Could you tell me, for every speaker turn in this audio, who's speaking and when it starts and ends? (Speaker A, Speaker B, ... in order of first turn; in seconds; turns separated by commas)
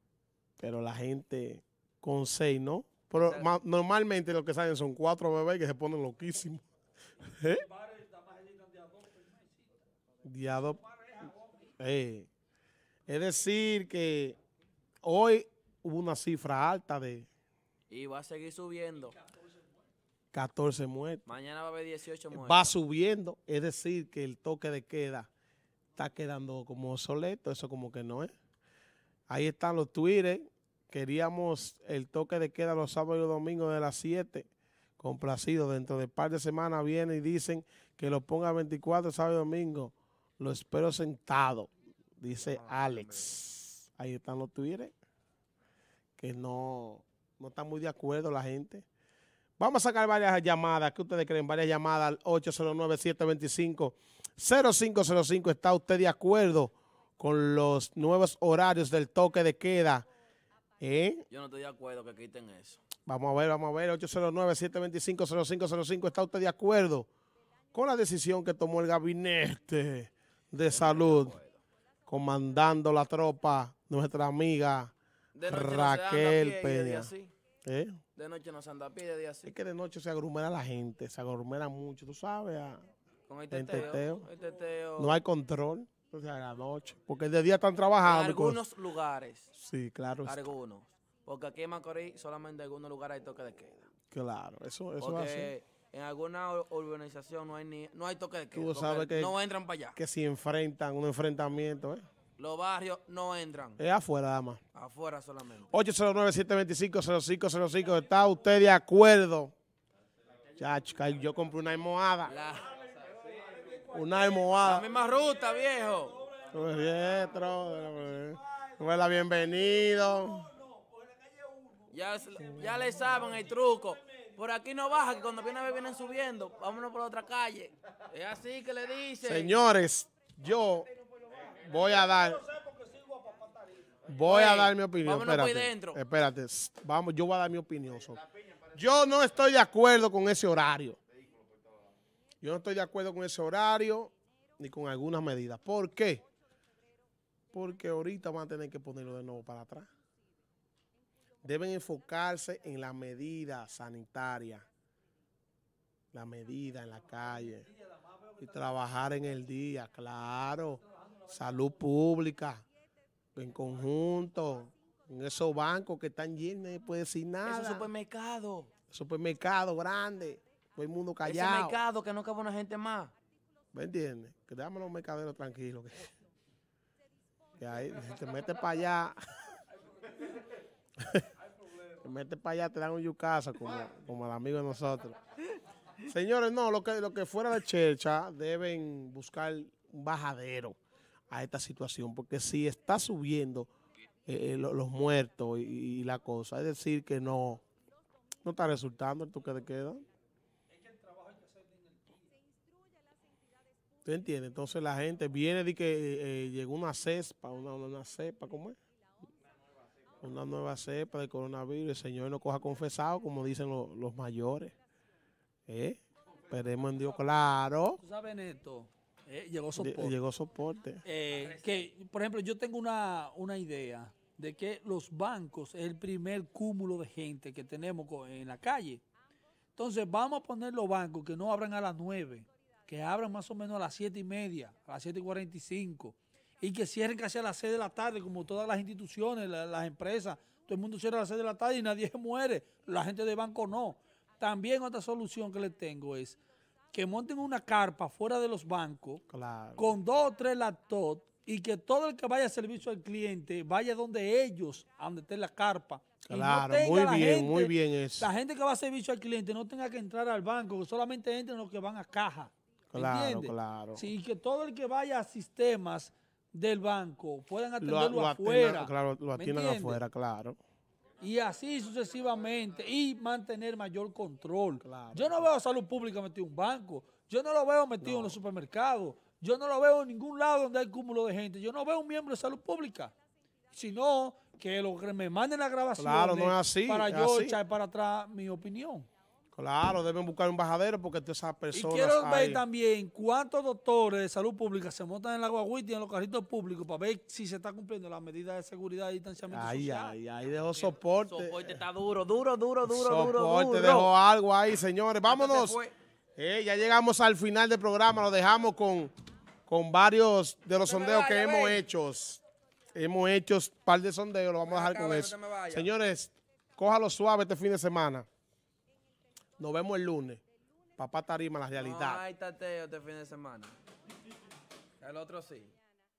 Speaker A: 0.6-6.6, Speaker B: 3.1-3.5, Speaker A: 7.3-7.7, Speaker C: 7.5-9.6, Speaker A: 10.2-10.8, Speaker C: 11.0-11.2, Speaker A: 11.8-12.3, Speaker A: 13.1-14.4, Speaker A: 15.0-17.3, Speaker B: 17.9-19.2, Speaker A: 20.3-21.2, Speaker B: 21.2-22.7, Speaker A: 22.3-25.3, Speaker A: 25.9-28.3, Speaker A: 29.3-34.5, Speaker A: 35.0-41.7, Speaker A: 42.2-44.9, Speaker B: 42.3-43.3, Speaker A: 46.2-48.8, Speaker A: 49.6-60.0, Speaker A: 60.8-61.2, Speaker B: 61.3-62.8, Speaker A: 63.0-67.1, Speaker A: 67.7-71.4, Speaker B: 70.7-71.6, Speaker A: 72.1-74.9, Speaker B: 75.3-77.3, Speaker A: 75.4-77.1, Speaker A: 77.6-78.0, Speaker B: 78.2-79.5, Speaker A: 79.5-82.8, Speaker B: 83.3-85.2, Speaker A: 83.5-84.3, Speaker A: 85.0-88.6, Speaker B: 88.0-89.5, Speaker A: 89.5-90.5, Speaker B: 90.2-93.9, Speaker A: 94.1-95.5, Speaker B: 95.0-100.0, Speaker A: 98.5-99.3, Speaker A: 100.0-102.0, Speaker B: 102.4-103.8, Speaker A: 103.8-104.6, Speaker B: 104.7-105.8, Speaker A: 105.7-109.5, Speaker A: 110.6-112.3, Speaker B: 112.2-112.8, Speaker C: 113.6-114.6, Speaker A: 113.9-114.9, Speaker B: 114.6-116.3, Speaker A: 116.5-120.5, Speaker C: 119.9-122.7, Speaker B: 121.9-129.6, Speaker A: 129.2-130.9, Speaker C: 131.4-133.9, Speaker A: 131.5-132.5, Speaker A: 134.1-141.0, Speaker B: 134.2-136.0, Speaker A: 142.4-146.2, Speaker A: 147.5-149.9, Speaker A: 151.4-154.7, Speaker A: 156.1-157.7, Speaker A: 158.4-162.6, Speaker A: 163.3-167.9, Speaker B: 167.4-168.7, Speaker A: 168.9-171.8, Speaker B: 171.2-173.1, Speaker A: 173.7-176.1, Speaker A: 177.6-179.2, Speaker A: 181.9-185.2, Speaker A: 186.0-190.8, Speaker A: 191.3-193.7, Speaker A: 194.2-197.6, Speaker A: 198.4-200.0, Speaker C: 200.7-202.3, Speaker A: 204.0-208.8, Speaker A: 210.2-214.7, Speaker A: 215.7-218.0, Speaker C: 218.0-220.2, Speaker A: 219.8-221.0, Speaker C: 221.0-229.0, Speaker C: 229.8-246.4, Speaker C: 246.9-249.2, Speaker A: 249.3-249.9, Speaker C: 249.8-270.0, Speaker A: 256.2-258.3, Speaker A: 262.9-264.1, Speaker A: 267.8-270.6, Speaker C: 271.2-283.1, Speaker A: 274.8-275.5, Speaker A: 278.0-278.4, Speaker C: 283.7-289.1, Speaker A: 286.0-287.6, Speaker A: 289.5-292.6, Speaker C: 291.7-300.1, Speaker A: 299.5-301.8, Speaker B: 300.9-304.1, Speaker A: 302.9-305.8, Speaker B: 305.2-305.9, Speaker A: 306.4-309.1, Speaker A: 309.7-312.4, Speaker B: 310.8-311.9, Speaker A: 312.9-318.3, Speaker B: 314.6-315.9, Speaker A: 319.6-320.4, Speaker A: 321.0-322.2, Speaker B: 321.7-323.7, Speaker B: 325.0-325.7